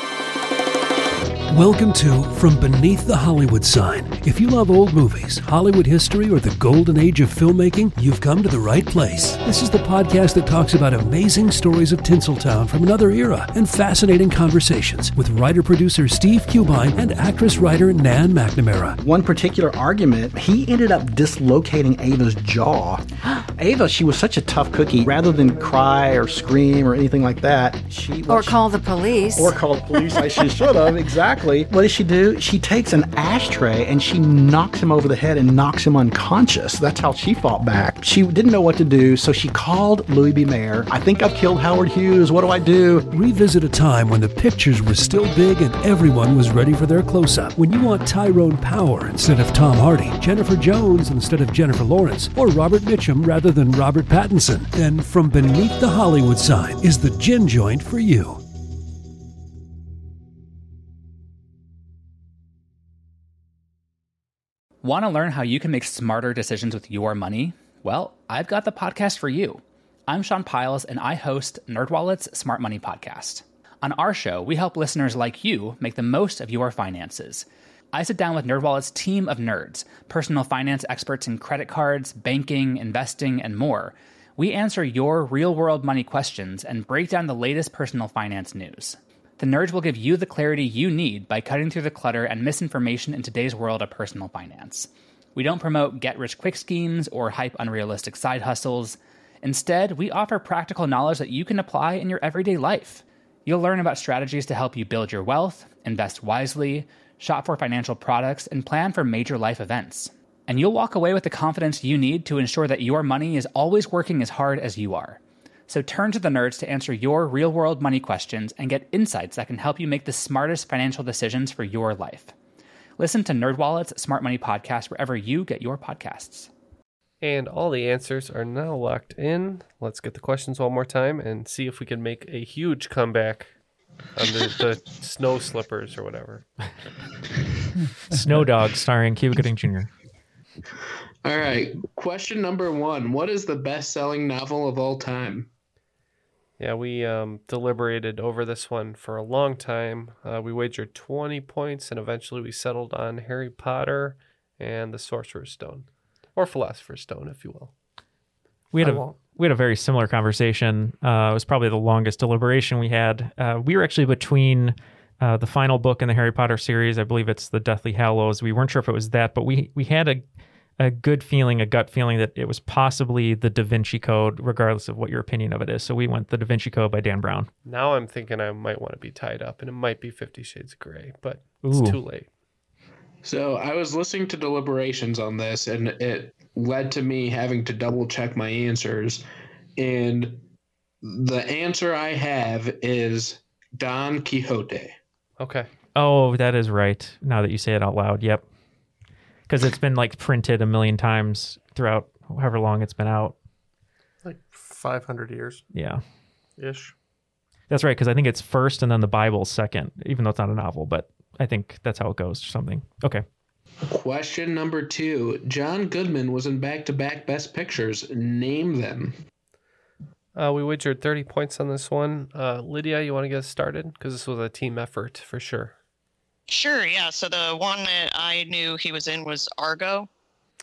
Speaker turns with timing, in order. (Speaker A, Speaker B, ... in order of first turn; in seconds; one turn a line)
Speaker A: 1.5-19.0
Speaker B: 19.0-23.0
Speaker B: 23.6-28.6
Speaker C: 28.3-30.4
Speaker B: 29.3-43.1
Speaker A: 43.1-58.4
Speaker D: 64.8-122.3
Speaker D: 123.0-126.5
Speaker E: 127.2-133.5
Speaker E: 134.2-136.4
Speaker F: 138.1-139.9
Speaker G: 141.2-145.5
Speaker E: 146.6-157.7
Speaker F: 158.7-170.2
Speaker H: 158.8-159.2
Speaker F: 170.8-177.5
Speaker E: 177.6-182.3
Speaker F: 181.6-182.0
Speaker G: 183.2-189.2
Speaker G: 189.8-190.4
Speaker G: 191.0-194.9
Speaker E: 195.4-195.7
Speaker F: 195.9-198.4
Speaker F: 199.5-203.3
Speaker H: 204.2-205.7
Speaker F: 205.7-206.0
Speaker H: 206.6-206.9
Speaker F: 207.7-213.2
Speaker G: 213.9-219.2
Speaker E: 220.3-225.7
Speaker I: 226.5-230.1